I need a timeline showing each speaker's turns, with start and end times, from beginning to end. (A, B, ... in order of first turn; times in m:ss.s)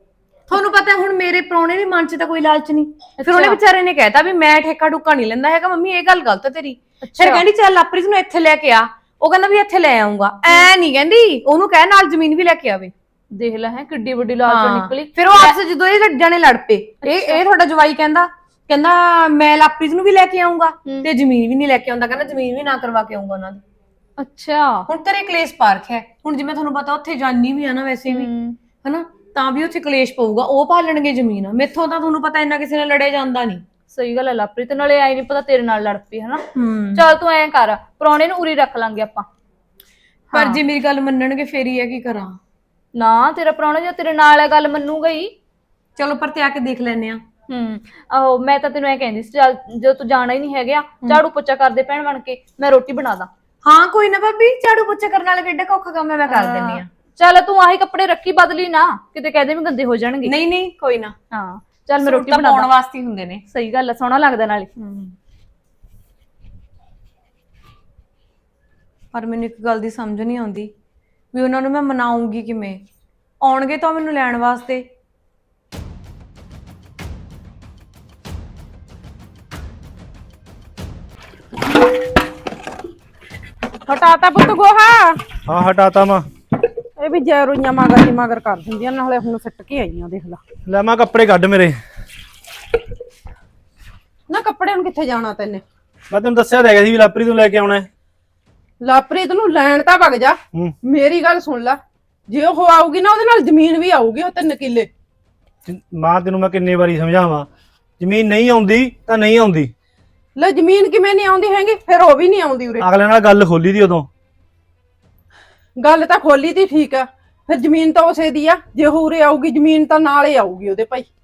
0:00.5-0:12.9 A
0:03.2-0:03.6 B
0:07.0-0:07.4 B
0:13.3-0:15.6 B
0:14.4-0:23.6 A
0:17.0-0:17.4 B
0:24.2-0:24.8 B
0:24.8-0:28.3 A
0:28.1-0:28.6 B
0:28.8-0:33.6 A
0:33.9-0:39.2 B
0:36.5-0:37.0 A
0:40.3-0:40.6 B
0:40.3-0:42.4 A
0:43.0-0:45.3 B
0:46.0-0:47.2 A
0:47.5-0:53.3 B
0:53.6-0:56.9 A
0:56.3-1:00.3 B
1:00.2-1:01.1 A
1:01.3-1:02.7 B
1:02.0-1:03.4 A
1:03.5-1:05.1 B
1:09.1-1:10.7 A
1:11.3-1:12.8 A
1:13.4-1:14.8 A
1:23.9-1:25.2 C
1:25.5-1:26.3 D
1:27.0-1:30.4 C
1:30.7-1:31.8 D
1:34.3-1:35.6 C
1:36.1-1:37.9 D
1:38.8-1:44.9 C
1:45.6-1:47.5 D
1:48.0-1:49.7 D
1:50.4-1:52.9 C
1:52.8-1:54.1 D
1:55.8-2:01.1 C